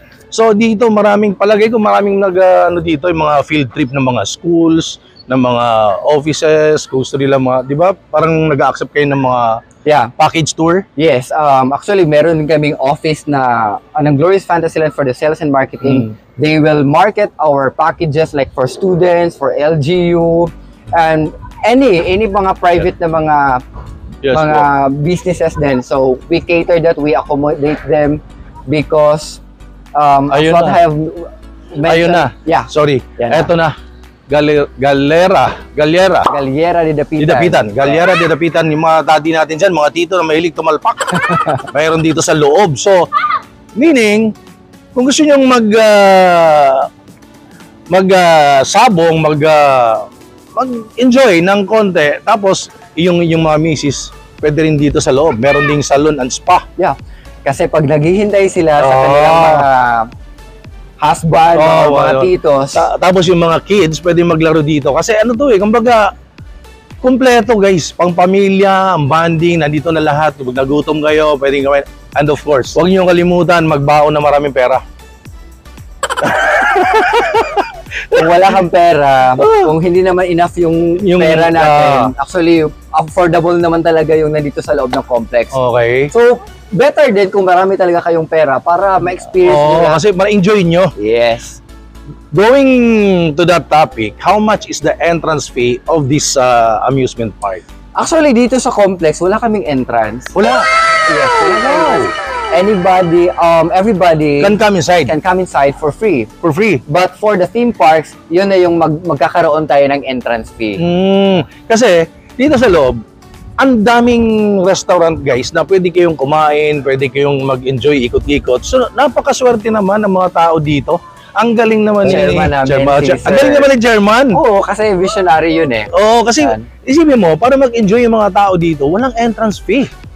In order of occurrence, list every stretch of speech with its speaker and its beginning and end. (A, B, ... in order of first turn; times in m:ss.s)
0:00.3-0:09.6 A
0:09.8-0:10.1 B
0:10.2-0:10.9 A
0:11.0-0:23.6 B
0:15.8-0:16.1 A
0:24.2-0:24.7 A
0:24.3-0:29.4 B
0:30.0-0:33.5 B
0:30.3-0:30.8 A
0:31.8-0:33.8 A
0:34.3-0:36.3 A
0:36.3-0:37.9 B
0:37.2-0:43.1 A
0:41.2-0:41.6 B
0:43.8-0:44.3 A
0:45.0-0:46.9 A
0:47.9-0:56.6 A
0:56.8-1:00.1 B
0:58.8-0:59.7 A
1:01.0-1:02.8 B
1:01.5-1:06.1 A
1:07.0-1:14.8 A
1:16.2-1:18.6 A
1:18.1-1:25.6 B
1:19.4-1:19.7 A
1:21.0-1:22.1 A
1:25.5-1:26.1 A
1:26.1-1:30.0 B
1:29.4-1:30.9 A
1:31.0-1:31.6 B
1:32.3-1:37.6 A
1:38.0-1:40.3 B
1:40.3-1:40.7 A
1:41.1-1:46.3 B
1:41.6-1:42.1 A
1:44.4-1:45.1 A
1:46.4-1:46.8 A
1:46.9-1:50.8 B
1:50.8-1:53.0 A
1:53.6-2:04.4 A
2:02.0-2:03.7 B
2:04.3-2:06.7 B
2:05.9-2:09.9 A